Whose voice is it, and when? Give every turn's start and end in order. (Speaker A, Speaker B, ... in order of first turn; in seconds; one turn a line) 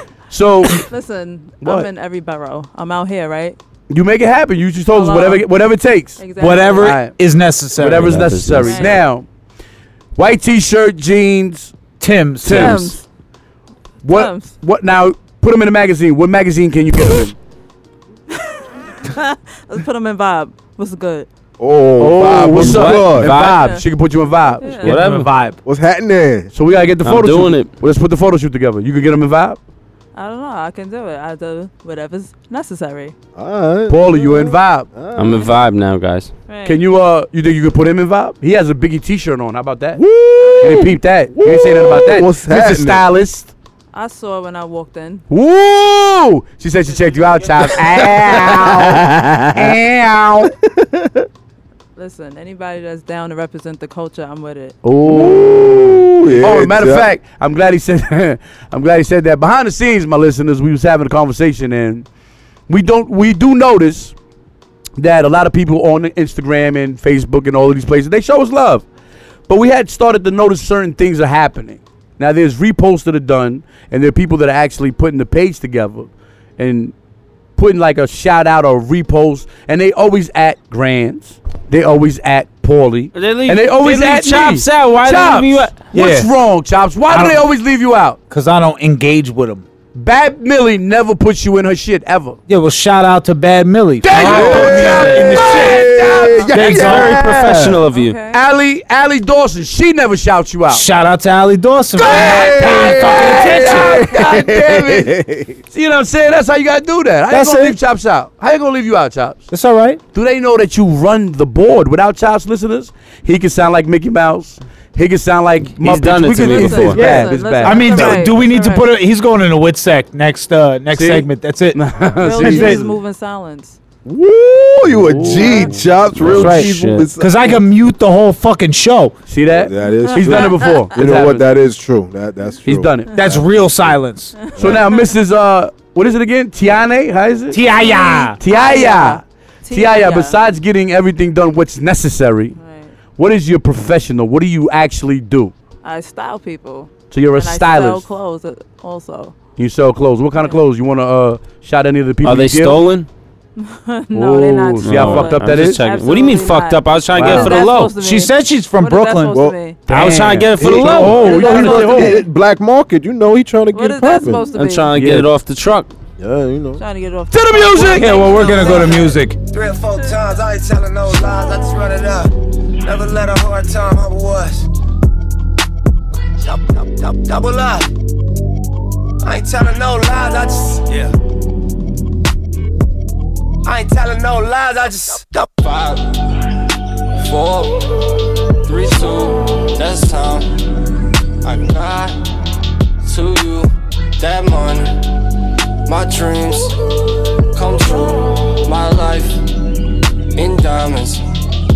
Speaker A: 0.3-0.8
Speaker B: 0.9-3.6
Speaker A: 1.6-1.9
Speaker A: 3.9-7.1
Speaker B: 4.9-5.5
Speaker B: 6.2-7.0
Speaker C: 6.3-8.3
Speaker A: 7.7-9.3
Speaker D: 7.9-9.0
Speaker B: 8.6-9.0
Speaker A: 10.2-11.7
Speaker C: 12.0-12.9
Speaker A: 12.4-13.0
Speaker B: 12.5-13.0
Speaker A: 14.0-17.3
Speaker B: 14.1-14.5
Speaker B: 18.4-21.3
Speaker E: 21.6-23.4
Speaker A: 22.0-25.1
Speaker D: 22.4-23.6
Speaker B: 23.5-23.8
Speaker B: 24.6-24.9
Speaker D: 24.8-25.3
Speaker C: 24.9-25.6
Speaker E: 25.6-26.5
Speaker A: 26.5-29.6
Speaker D: 27.0-27.7
Speaker B: 30.1-33.1
Speaker E: 33.4-35.5
Speaker A: 33.9-34.9
Speaker D: 35.1-36.3
Speaker B: 36.5-36.8
Speaker A: 36.6-40.0
Speaker E: 40.0-43.0
Speaker A: 40.6-43.5
Speaker B: 43.9-45.2
Speaker A: 45.3-50.5
Speaker B: 46.9-47.5
Speaker E: 47.6-49.8
Speaker E: 50.7-51.3
Speaker B: 52.0-54.8
Speaker A: 54.8-62.0
Speaker E: 55.0-57.1
Speaker A: 62.7-64.1
Speaker A: 65.0-68.8
Speaker A: 69.5-76.9
Speaker A: 77.5-88.2
Speaker D: 83.1-85.8
Speaker C: 85.9-86.3
Speaker C: 87.1-87.5
Speaker C: 88.3-89.7
Speaker A: 89.9-92.4
Speaker C: 92.5-95.9
Speaker A: 94.0-97.3
Speaker E: 94.1-97.5
Speaker C: 96.5-97.8
Speaker D: 96.7-98.2
Speaker B: 97.9-98.4
Speaker A: 98.3-100.8
Speaker C: 100.7-104.1
Speaker A: 102.0-105.1
Speaker E: 102.0-105.6
Speaker A: 105.7-109.4
Speaker C: 107.3-107.8
Speaker C: 109.5-110.0
Speaker A: 110.1-118.3
Speaker D: 115.8-117.0
Speaker B: 116.4-118.9
Speaker C: 116.9-121.8
Speaker A: 120.9-122.8
Speaker B: 122.2-123.8
Speaker C: 122.4-122.9
Speaker E: 124.0-127.6
Speaker A: 124.9-126.5
Speaker B: 125.4-125.7
Speaker D: 126.1-127.1
Speaker C: 126.3-129.2
Speaker A: 129.3-131.5
Speaker E: 129.5-133.5
Speaker B: 130.0-130.9
Speaker A: 132.7-133.2
Speaker B: 133.1-133.3
Speaker C: 133.1-134.4
Speaker B: 134.4-135.1
Speaker E: 134.6-134.8
Speaker A: 134.6-137.6
Speaker C: 137.5-138.4
Speaker B: 137.8-140.4
Speaker A: 138.4-142.5
Speaker B: 142.5-142.9
Speaker A: 143.2-145.5
Speaker B: 145.8-149.4
Speaker A: 147.1-148.1
Speaker A: 149.6-152.8
Speaker B: 150.3-150.6
Speaker D: 152.2-153.1
Speaker B: 153.6-159.8
Speaker A: 154.1-155.8
Speaker D: 154.8-157.9
Speaker A: 157.1-157.6
Speaker C: 157.9-159.4
Speaker A: 159.9-162.2
Speaker D: 159.9-161.4
Speaker E: 160.6-164.5
Speaker B: 161.2-162.2
Speaker B: 163.7-164.9
Speaker D: 164.5-165.9
Speaker A: 164.9-165.3
Speaker E: 166.2-166.8
Speaker B: 166.8-169.2
Speaker A: 167.3-168.5
Speaker C: 167.8-169.4
Speaker F: 169.5-174.7
Speaker F: 176.4-177.9
Speaker F: 179.2-180.9
Speaker F: 183.6-185.5
Speaker G: 185.5-186.2
Speaker G: 187.2-187.9
Speaker G: 188.6-190.5
Speaker G: 191.4-192.2
Speaker G: 193.0-195.0
Speaker G: 195.8-196.8
Speaker G: 197.5-199.4
Speaker G: 200.3-201.2